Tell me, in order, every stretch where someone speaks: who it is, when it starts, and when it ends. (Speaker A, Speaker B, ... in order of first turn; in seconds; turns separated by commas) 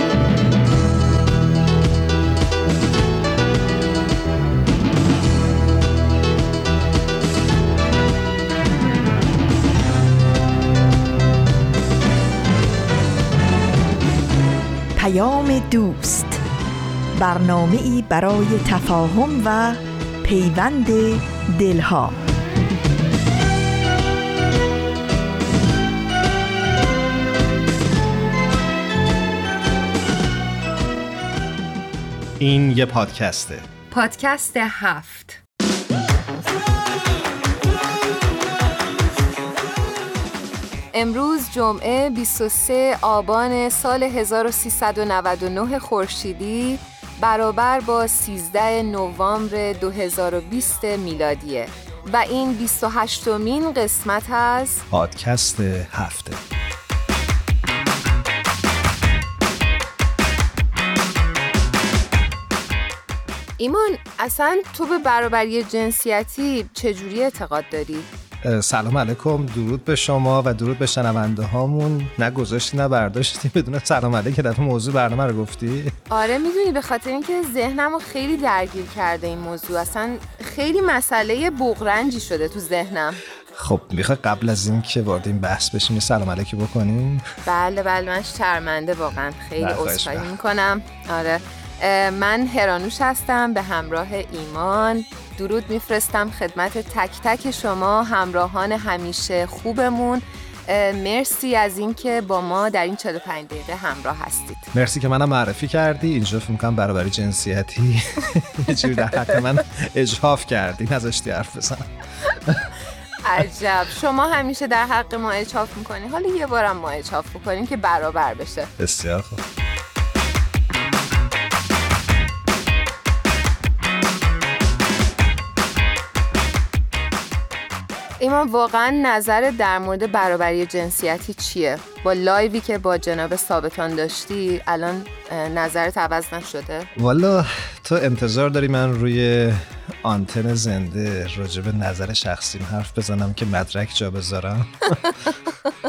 Speaker A: 15.0-16.4, Speaker A: 17.1-22.2, Speaker B: 32.4-33.7, Speaker C: 33.9-35.4, Speaker C: 40.9-54.9, Speaker B: 54.9-56.4, Speaker C: 63.6-68.1, Speaker B: 68.4-75.9, Speaker C: 76.1-83.2, Speaker B: 83.6-87.2, Speaker C: 87.5-104.7, Speaker B: 89.6-90.3, Speaker B: 104.7-111.9, Speaker C: 113.2-118.7, Speaker B: 118.8-119.4, Speaker C: 128.2-136.9, Speaker B: 137.0-145.4